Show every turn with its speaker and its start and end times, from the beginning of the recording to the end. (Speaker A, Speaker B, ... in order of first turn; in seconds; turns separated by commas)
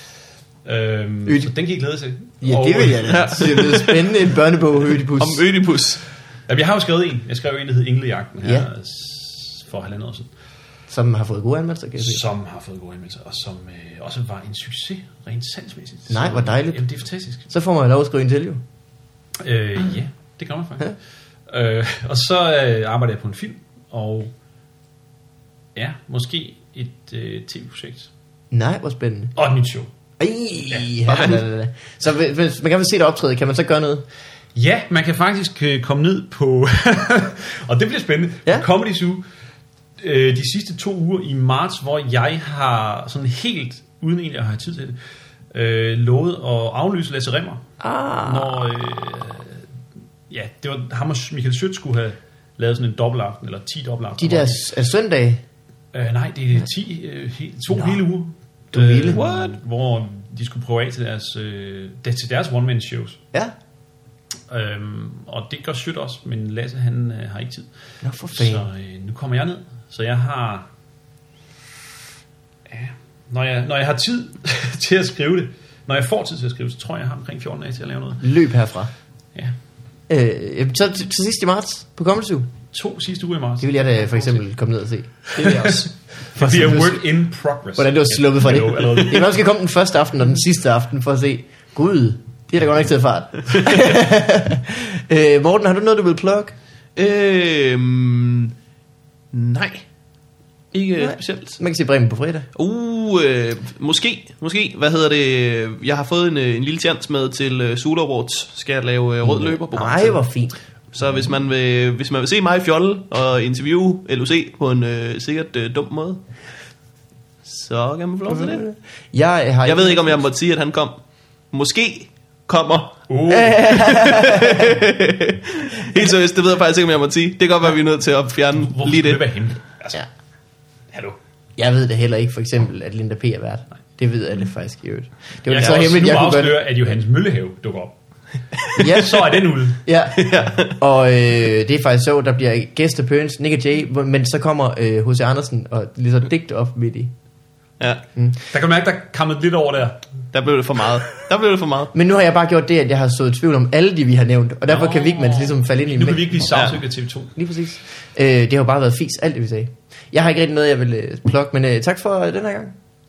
Speaker A: 0.7-3.6, Speaker B: 1.3-1.5, Speaker B: 2.4-5.4, Speaker C: 3.0-4.3, Speaker C: 5.0-6.0, Speaker A: 6.5-10.3, Speaker B: 8.4-8.7, Speaker B: 10.9-12.2, Speaker A: 12.0-17.5, Speaker B: 16.1-16.9, Speaker B: 17.5-18.6, Speaker A: 19.4-21.0, Speaker A: 21.5-24.3, Speaker A: 25.8-28.1, Speaker B: 28.5-29.3, Speaker A: 29.4-29.9, Speaker B: 30.2-34.0, Speaker C: 31.1-31.4, Speaker A: 34.5-39.2, Speaker A: 40.0-45.0, Speaker A: 45.5-47.6, Speaker B: 47.8-48.7, Speaker A: 48.2-49.7, Speaker A: 50.3-54.6, Speaker B: 54.2-55.4, Speaker A: 55.9-63.2, Speaker B: 57.7-58.0, Speaker B: 58.7-59.2, Speaker C: 59.1-59.6, Speaker A: 64.5-67.7, Speaker B: 68.0-68.7, Speaker A: 68.3-70.7, Speaker A: 72.7-78.2, Speaker B: 78.2-78.9, Speaker B: 80.1-82.5, Speaker A: 82.7-84.4, Speaker B: 83.6-85.5, Speaker C: 85.3-85.9, Speaker A: 85.4-89.3, Speaker B: 86.3-87.0, Speaker B: 87.8-96.5, Speaker C: 97.0-98.5, Speaker C: 99.3-99.8, Speaker C: 100.7-101.6, Speaker B: 101.0-102.5, Speaker C: 102.5-110.2, Speaker B: 109.2-110.6, Speaker C: 110.9-116.2, Speaker C: 117.5-118.7, Speaker B: 118.3-120.3, Speaker C: 119.7-121.0, Speaker C: 121.5-123.0, Speaker A: 123.1-123.8, Speaker B: 123.3-124.8, Speaker C: 123.7-129.2, Speaker A: 128.7-130.0, Speaker A: 130.9-131.2, Speaker B: 131.6-136.6, Speaker A: 135.5-137.9, Speaker A: 138.8-139.8, Speaker B: 138.8-147.1, Speaker C: 140.2-140.8, Speaker A: 148.5-150.1, Speaker C: 150.3-151.9, Speaker B: 151.9-156.8, Speaker A: 154.7-157.3, Speaker B: 157.4-162.8